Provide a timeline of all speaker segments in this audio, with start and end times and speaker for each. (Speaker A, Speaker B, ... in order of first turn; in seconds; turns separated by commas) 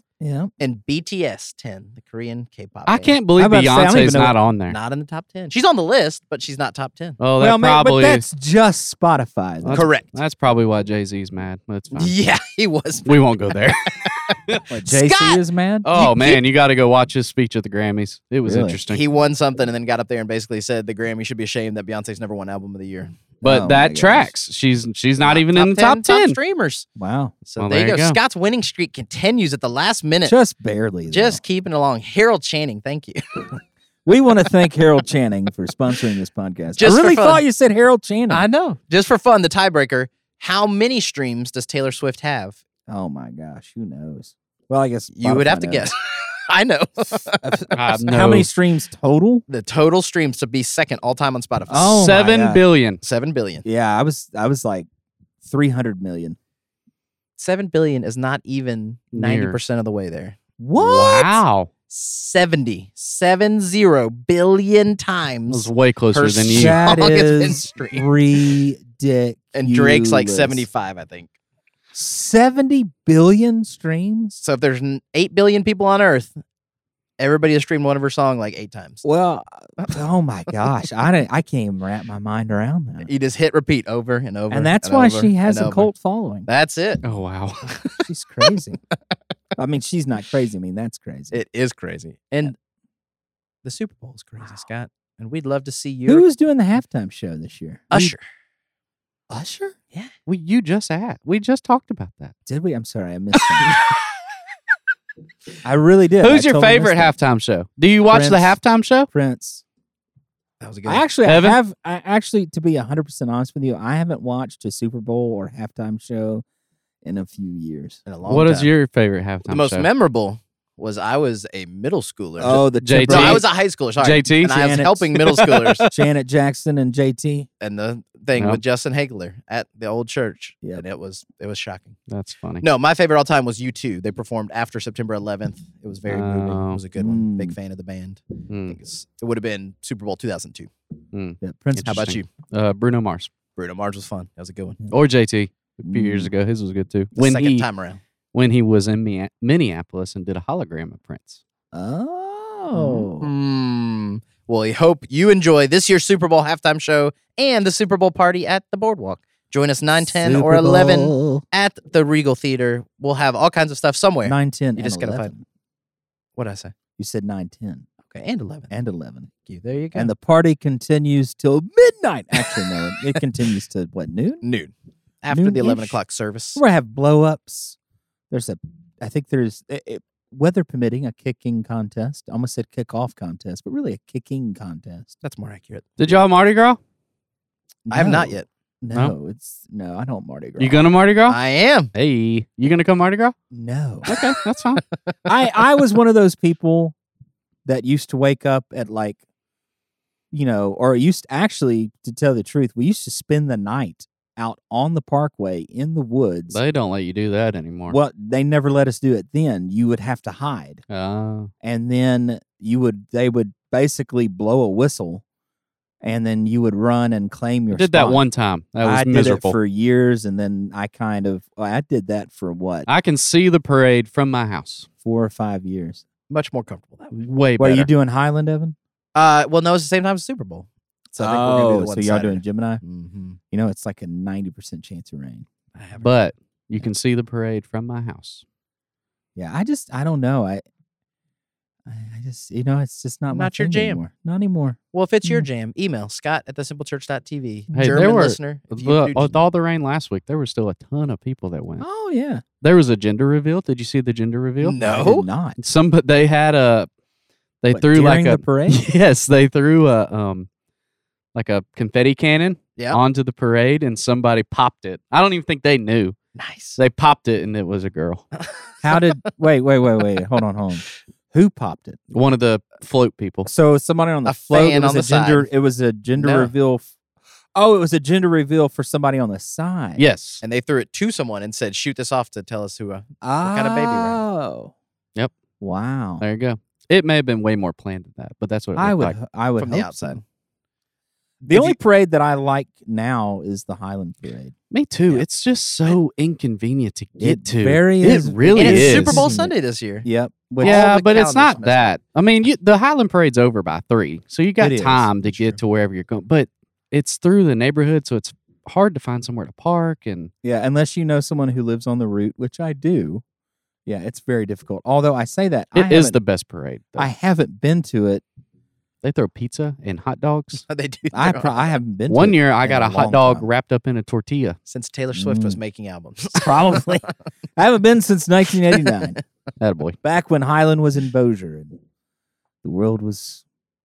Speaker A: 0.2-0.5, Speaker B: 0.6-3.2, Speaker C: 2.9-4.8, Speaker A: 3.4-4.4, Speaker B: 4.7-7.2, Speaker C: 7.2-8.2, Speaker A: 7.4-9.9, Speaker C: 9.6-12.2, Speaker B: 9.7-10.1, Speaker B: 11.9-15.4, Speaker C: 13.1-14.6, Speaker A: 14.7-16.4, Speaker C: 15.8-19.0, Speaker B: 16.0-16.4, Speaker A: 18.4-18.8, Speaker B: 18.9-23.2, Speaker A: 23.4-24.3, Speaker C: 23.4-26.4, Speaker B: 25.2-26.9, Speaker A: 27.0-27.4, Speaker B: 27.4-30.4, Speaker C: 27.6-28.2, Speaker A: 30.2-31.4, Speaker B: 31.1-33.5, Speaker A: 34.0-38.5, Speaker B: 36.8-37.4, Speaker B: 38.3-42.6, Speaker A: 42.9-45.9, Speaker B: 45.1-47.6, Speaker A: 47.4-49.5, Speaker C: 47.7-48.5, Speaker B: 49.5-52.1, Speaker A: 51.7-52.6, Speaker C: 51.8-53.0, Speaker B: 53.0-53.6, Speaker A: 53.6-54.9, Speaker A: 55.4-56.4, Speaker B: 57.4-60.4, Speaker C: 59.1-59.6, Speaker A: 60.6-61.4, Speaker C: 60.8-61.7, Speaker B: 61.9-68.1, Speaker C: 65.5-66.8, Speaker A: 66.5-70.7, Speaker B: 69.5-71.3, Speaker A: 71.9-74.4, Speaker B: 74.4-76.3, Speaker B: 77.2-79.0, Speaker A: 79.0-83.1, Speaker B: 83.0-85.9, Speaker A: 84.5-86.5, Speaker B: 86.5-87.0, Speaker C: 87.0-87.7, Speaker B: 87.7-88.0, Speaker A: 88.0-88.8, Speaker A: 89.6-91.3, Speaker B: 91.3-92.5, Speaker B: 93.6-96.3, Speaker A: 96.1-98.1, Speaker B: 97.9-98.2, Speaker A: 99.3-99.8, Speaker C: 100.3-102.3, Speaker A: 102.5-103.7, Speaker C: 103.4-103.8, Speaker A: 105.6-107.2, Speaker C: 106.2-109.1, Speaker A: 108.1-108.6, Speaker A: 109.1-109.6, Speaker B: 110.6-111.0, Speaker A: 110.9-116.4, Speaker C: 111.2-111.6, Speaker A: 117.0-118.0, Speaker B: 118.1-118.7, Speaker C: 118.3-119.9, Speaker B: 119.5-125.9, Speaker A: 122.4-123.4, Speaker C: 122.8-125.9, Speaker A: 124.5-125.1, Speaker A: 125.9-127.5, Speaker B: 127.6-132.0, Speaker C: 132.1-132.6, Speaker B: 132.6-140.7, Speaker C: 136.1-136.8, Speaker A: 137.0-137.6, Speaker C: 138.5-138.8, Speaker C: 141.1-143.3, Speaker A: 141.4-142.2, Speaker B: 141.9-142.3, Speaker B: 143.6-144.8, Speaker C: 144.9-147.7, Speaker A: 145.8-146.3, Speaker B: 147.2-148.0, Speaker C: 148.3-151.4, Speaker A: 151.7-153.3, Speaker B: 153.2-165.3, Speaker A: 160.0-161.4, Speaker A: 164.2-165.4, Speaker B: 166.4-166.7, Speaker A: 167.0-167.9, Speaker B: 168.1-168.7, Speaker A: 168.7-169.3, Speaker B: 169.5-170.1, Speaker A: 169.9-174.4, Speaker B: 174.4-176.6, Speaker A: 175.3-176.0, Speaker A: 176.6-177.8, Speaker A: 178.3-185.1, Speaker B: 185.2-186.2, Speaker C: 186.0-186.8, Speaker A: 187.9-190.9, Speaker B: 187.9-188.5, Speaker C: 190.6-191.4, Speaker B: 191.3-191.9, Speaker C: 191.9-193.3, Speaker A: 193.5-194.1, Speaker C: 194.1-194.8, Speaker A: 195.3-196.9, Speaker A: 197.7-199.2, Speaker A: 200.3-206.6, Speaker C: 206.5-208.0, Speaker A: 207.9-210.8, Speaker C: 210.9-211.5, Speaker A: 211.6-215.2, Speaker A: 216.0-218.2, Speaker C: 217.7-219.6, Speaker A: 218.8-222.9, Speaker C: 222.9-224.9, Speaker A: 225.0-226.0, Speaker B: 226.3-227.2, Speaker C: 227.1-227.9, Speaker A: 227.6-228.8, Speaker B: 229.2-233.4, Speaker A: 231.1-232.8, Speaker A: 233.5-235.5, Speaker B: 235.8-236.1, Speaker C: 236.0-238.4, Speaker A: 239.4-240.6, Speaker A: 241.9-245.5, Speaker B: 243.3-244.0, Speaker B: 244.9-249.4, Speaker C: 247.7-251.9, Speaker A: 251.8-252.4, Speaker C: 252.6-254.8, Speaker B: 254.6-255.3, Speaker A: 254.8-255.6, Speaker C: 255.6-256.9, Speaker C: 257.6-260.5, Speaker A: 257.7-258.8, Speaker C: 261.4-266.2, Speaker B: 266.4-266.8, Speaker C: 266.8-268.2, Speaker A: 268.8-272.0, Speaker C: 272.1-273.5, Speaker A: 273.5-276.9, Speaker B: 274.3-275.5, Speaker B: 276.2-276.5, Speaker A: 277.6-280.0, Speaker C: 280.0-280.4, Speaker B: 280.4-284.2, Speaker A: 283.2-284.7, Speaker A: 285.6-286.2, Speaker C: 286.2-289.2, Speaker A: 288.8-290.2, Speaker B: 289.6-290.2, Speaker A: 291.5-294.6, Speaker C: 294.7-299.3, Speaker A: 297.2-299.5, Speaker B: 298.5-300.1, Speaker A: 300.0-300.9, Speaker B: 300.6-302.0, Speaker C: 300.6-310.3, Speaker A: 304.6-305.1, Speaker B: 305.2-305.6, Speaker A: 310.4-313.2, Speaker A: 313.9-316.2, Speaker C: 315.8-317.1, Speaker A: 317.0-318.2, Speaker C: 319.0-320.6, Speaker B: 320.7-321.7, Speaker A: 321.1-323.5, Speaker C: 322.1-324.6, Speaker B: 324.7-326.9, Speaker A: 325.1-325.6, Speaker A: 326.3-329.2, Speaker C: 329.6-330.0, Speaker A: 330.0-331.8, Speaker A: 332.6-333.4